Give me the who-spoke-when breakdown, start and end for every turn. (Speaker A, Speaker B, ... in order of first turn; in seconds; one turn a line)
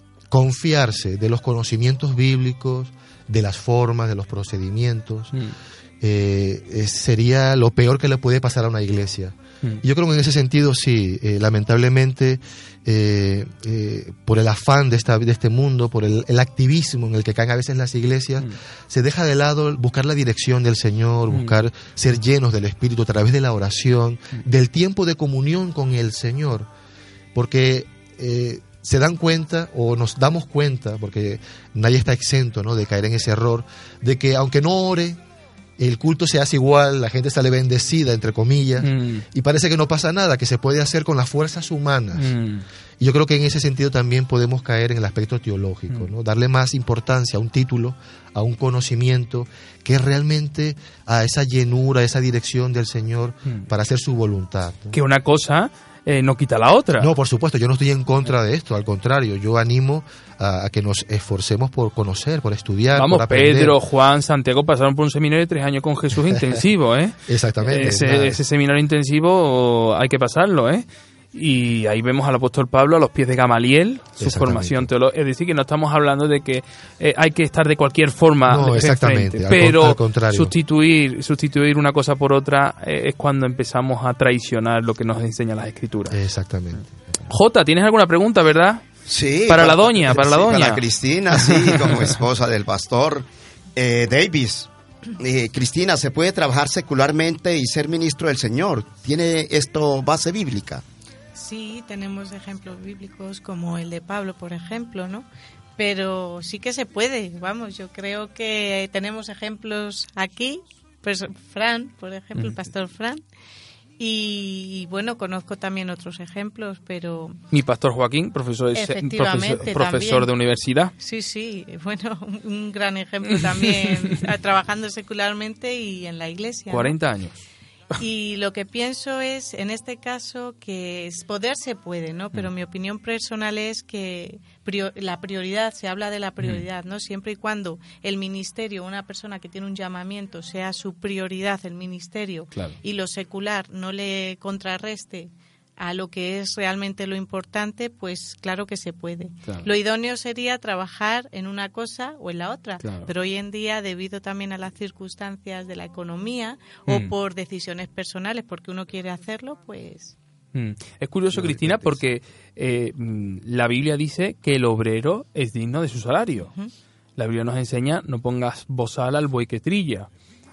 Speaker A: 0.3-5.3
Speaker A: 6.0-26.7
Speaker A: 27.3-35.2
Speaker A: 35.8-42.4
Speaker B: 38.8-39.2
Speaker B: 42.2-42.6
Speaker A: 43.0-55.0
Speaker B: 54.9-57.1
Speaker A: 57.0-63.8
Speaker B: 62.9-86.2
Speaker A: 67.3-68.4
Speaker A: 74.2-74.9
Speaker A: 78.4-80.5
Speaker A: 86.1-87.2
Speaker B: 87.3-88.8
Speaker C: 89.1-100.8
Speaker B: 89.5-90.8
Speaker B: 91.3-91.9
Speaker D: 101.3-105.2
Speaker D: 105.8-113.2
Speaker D: 114.0-117.3
Speaker B: 117.5-120.9
Speaker D: 118.7-120.3
Speaker D: 121.0-127.0
Speaker B: 126.7-127.4
Speaker D: 128.0-160.2
Speaker B: 152.8-153.1
Speaker B: 156.9-157.1
Speaker B: 160.5-166.5
Speaker A: 161.3-162.0
Speaker B: 167.2-170.1